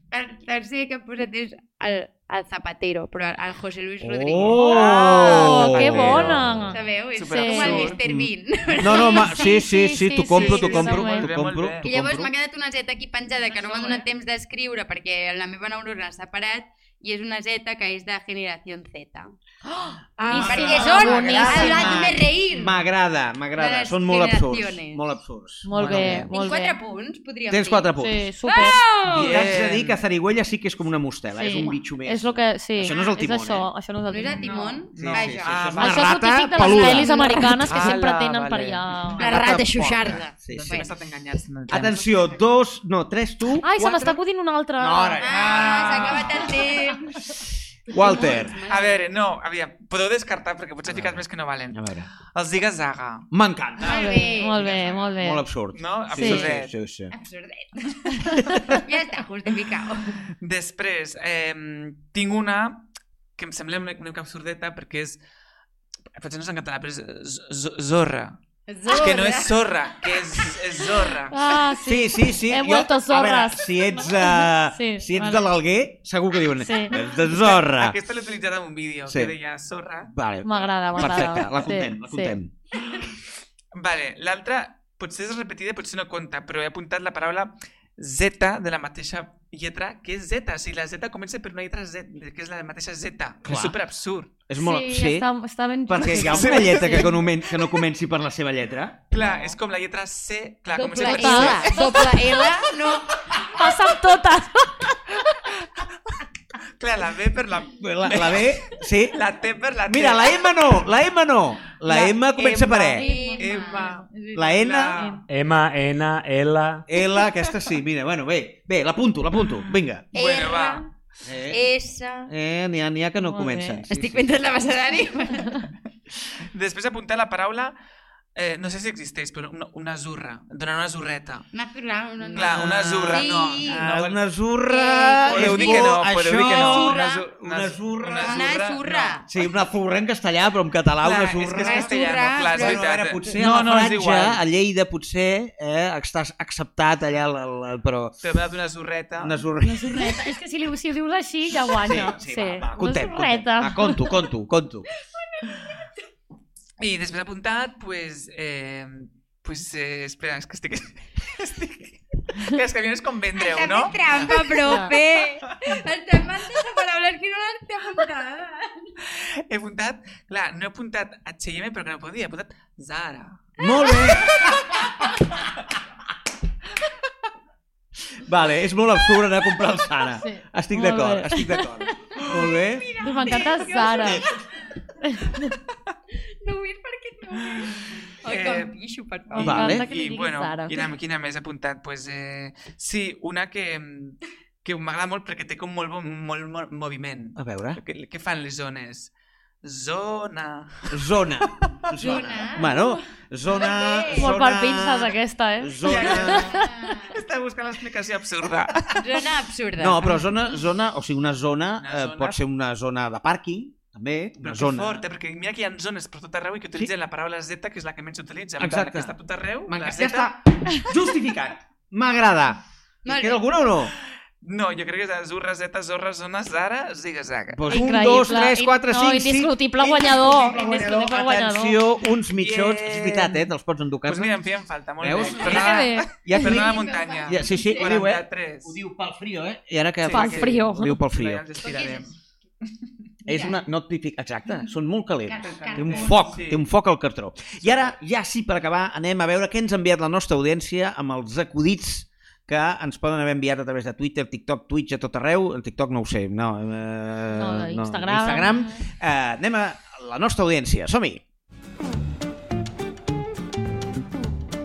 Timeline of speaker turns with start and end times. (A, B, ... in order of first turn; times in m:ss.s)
0:00.1-0:05.3 A
0:04.0-0:06.5 B
0:04.5-0:07.9 C
0:05.2-0:06.4 D
0:06.4-0:06.7 E
0:06.7-0:09.5 A
0:07.1-0:08.0 D
0:08.0-0:12.3 B
0:08.9-0:11.2 C
0:10.3-0:11.9 D
0:11.8-0:19.3 A
0:13.4-0:14.0 D
0:19.7-0:22.2 C
0:20.2-0:22.8 A
0:20.2-0:26.3 B
0:23.6-0:25.0 A
0:25.6-0:26.8 C
0:25.7-0:26.2 D
0:26.2-0:27.9 A
0:27.5-0:28.3 B
0:28.0-0:28.8 C
0:28.4-0:29.5 A
0:29.1-0:30.0 D
0:29.2-0:33.7 B
0:31.3-0:34.8 C
0:31.4-0:31.8 A
0:32.9-0:33.1 A
0:34.1-0:36.0 A
0:34.3-0:36.1 D
0:35.0-0:37.1 B
0:35.8-0:39.2 C
0:36.5-0:37.8 A
0:37.4-0:39.8 D
0:39.2-0:40.9 A
0:39.2-0:40.9 B
0:40.5-0:42.4 D
0:41.7-0:44.2 B
0:43.6-0:45.2 C
0:44.8-0:46.1 B
0:45.2-0:47.2 A
0:45.3-0:47.0 D
0:47.9-0:49.1 A
0:47.9-0:48.6 B
0:48.7-0:51.8 D
0:50.9-0:52.1 B
0:52.3-0:53.3 D
0:53.3-0:54.1 B
0:53.8-0:54.6 A
0:53.8-0:55.4 C
0:54.6-0:55.1 D
0:55.2-0:57.1 B
0:55.7-0:56.7 D
0:56.1-0:56.5 C
0:57.1-1:00.2 A
0:58.4-0:58.6 B
0:58.4-0:58.6 C
1:00.4-1:02.8 D
1:03.4-1:05.2 D
1:06.1-1:08.4 D
1:08.7-1:09.6 A
1:08.9-1:11.5 D
1:11.3-1:15.5 C
1:11.8-1:18.0 B
1:16.6-1:16.9 C
1:17.1-1:20.1 D
1:19.1-1:19.3 B
1:20.1-1:22.5 B
1:20.4-1:22.4 C
1:21.0-1:21.4 D
1:23.7-1:34.3 D
1:33.4-1:33.8 B
1:34.5-1:35.3 B
1:34.6-1:37.1 C
1:35.9-1:39.0 B
1:36.0-1:37.6 D
1:39.1-1:42.4 D
1:40.7-1:43.2 A
1:40.9-1:42.0 C
1:43.4-1:44.9 C
1:46.8-1:48.6 D
1:47.8-1:49.2 B
1:49.1-1:50.5 D
1:49.9-1:53.1 B
1:51.9-1:52.1 C
1:52.1-1:54.0 D
1:52.9-1:55.2 C
1:52.9-1:54.0 A
1:54.3-1:55.0 B
1:54.6-1:55.2 D
1:55.3-1:56.8 E
1:56.9-2:00.1 B
2:00.1-2:00.9 A
2:00.1-2:00.8 D
2:01.2-2:01.6 B
2:01.4-2:02.3 A
2:02.3-2:04.3 B
2:03.2-2:03.8 C
2:03.9-2:05.7 A
2:06.3-2:07.7 D
2:08.3-2:11.5 D
2:11.5-2:13.9 A
2:12.3-2:14.2 D
2:12.3-2:18.5 B
2:14.7-2:17.2 A
2:15.2-2:19.2 D
2:18.2-2:19.3 A
2:19.3-2:21.9 B
2:21.0-2:24.4 D
2:21.6-2:22.9 A
2:22.5-2:28.2 B
2:28.2-2:29.4 D
2:29.2-2:30.2 B
2:29.6-2:34.1 C
2:31.8-2:34.8 B
2:36.8-2:44.8 D
2:43.4-2:48.9 A
2:44.6-2:44.9 C
2:45.4-2:45.7 D
2:49.0-2:53.5 D
2:53.6-2:54.8 B
2:53.6-2:54.5 A
2:54.0-2:54.5 D
2:58.1-3:02.9 B
3:00.1-3:02.0 C
3:02.3-3:04.4 A
3:03.0-3:04.3 C
3:05.0-3:05.6 C
3:06.4-3:09.7 A
3:08.2-3:08.7 D
3:09.3-3:19.1 D
3:09.4-3:10.9 C
3:09.4-3:09.8 B
3:17.4-3:17.8 B
3:19.6-3:21.1 D
3:20.9-3:26.6 B
3:21.6-3:22.2 D
3:22.0-3:23.0 A
3:23.5-3:24.3 A
3:24.2-3:26.7 C
3:25.8-3:29.2 D
3:26.5-3:27.2 A
3:28.9-3:30.2 A
3:29.8-3:35.0 B
3:31.8-3:32.4 D
3:34.4-3:40.3 D
3:38.6-3:39.1 B
3:39.7-3:43.9 B
3:43.0-3:43.4 A
3:44.4-3:48.0 D
3:47.5-3:54.4 B
3:47.7-3:51.8 C
3:52.4-3:53.4 D
3:54.0-3:58.8 D
3:55.0-4:01.5 B
3:55.4-3:56.1 C
3:56.3-3:58.0 A
4:00.0-4:02.1 D
4:00.1-4:00.9 C
4:01.6-4:02.1 A
4:03.2-4:03.6 A
4:03.2-4:21.2 B
4:05.2-4:06.4 A
4:05.4-4:06.6 D
4:07.6-4:07.9 D
4:17.3-4:18.6 C